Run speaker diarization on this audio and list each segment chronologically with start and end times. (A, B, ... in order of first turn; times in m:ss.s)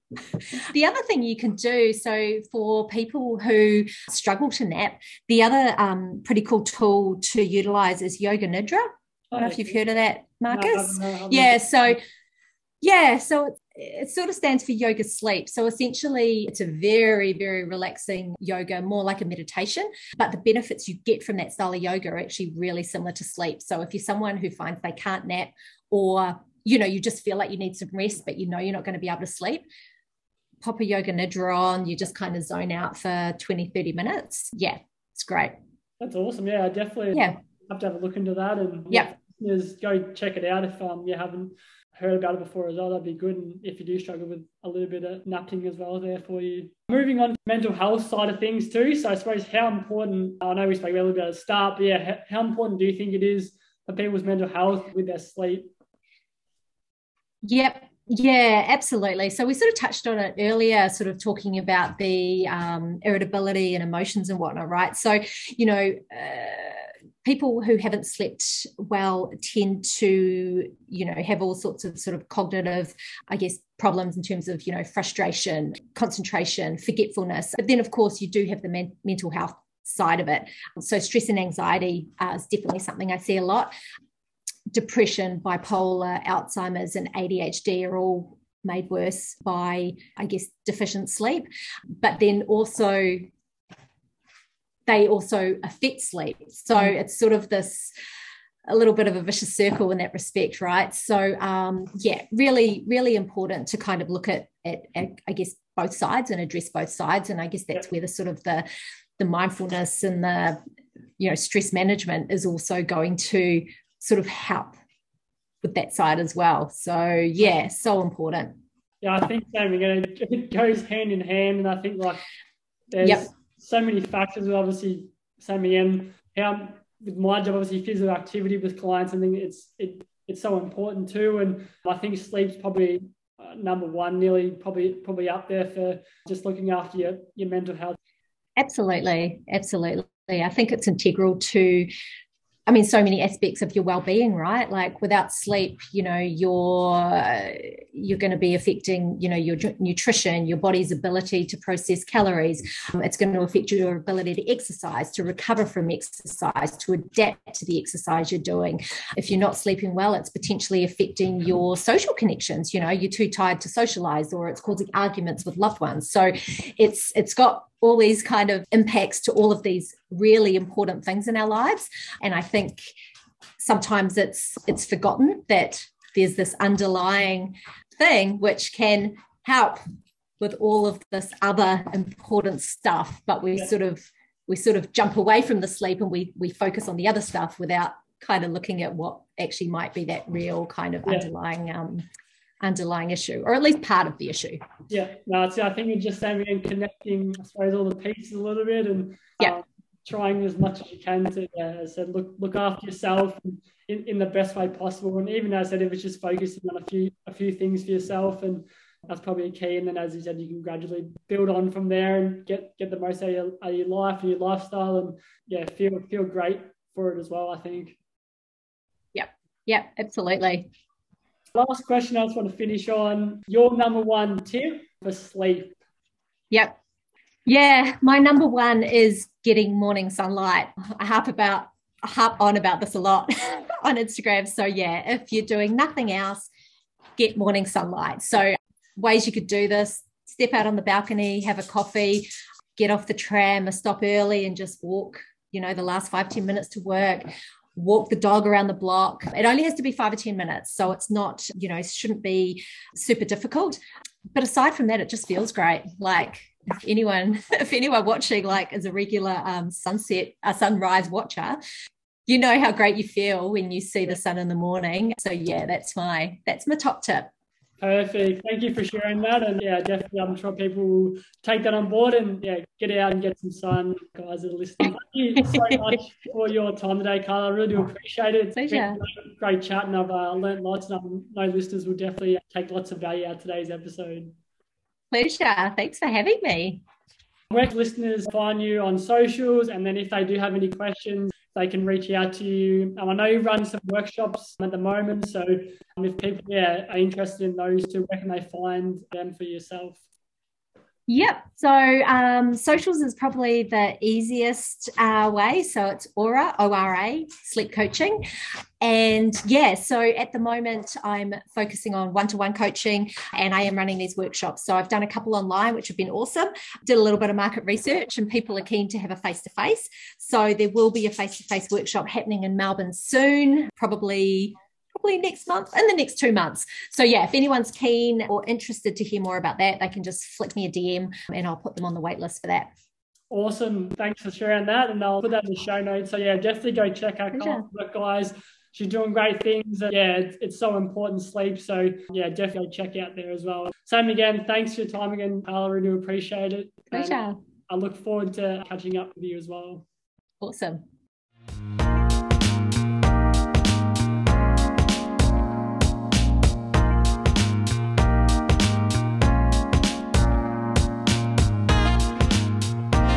0:00.3-0:12.0 A
0:09.3-0:09.8 B
0:10.5-0:12.0 B
0:12.8-0:29.6 A
0:30.6-0:35.5 A
0:36.0-0:55.7 B
0:57.4-1:23.7 A
1:24.7-1:31.5 A
1:32.0-1:33.3 A
1:34.9-1:37.9 A
1:38.7-1:48.6 A
1:49.2-1:50.6 A
1:51.2-1:54.7 A
1:55.6-1:58.5 A
1:59.0-2:02.2 B
2:02.9-2:18.0 B
2:18.6-2:21.9 A
2:22.7-2:52.9 A
2:53.6-2:59.8 A
3:00.4-3:12.0 A
3:12.6-3:14.6 A
3:14.9-3:38.0 B
3:39.1-3:40.7 A
3:41.5-3:45.8 B
3:46.5-3:46.8 A
3:47.4-3:56.5 A
3:57.2-4:13.8 A
4:14.3-4:21.6 A
4:22.3-4:27.3 A
4:27.8-4:44.4 B
4:35.5-4:35.8 A
4:38.6-4:39.0 A
4:45.1-4:46.8 A
4:47.5-5:00.0 B
5:01.1-5:08.2 A
5:08.8-5:32.7 A
5:33.3-5:49.8 B
5:37.3-5:37.6 A
5:46.9-5:47.4 A
5:50.4-5:50.8 A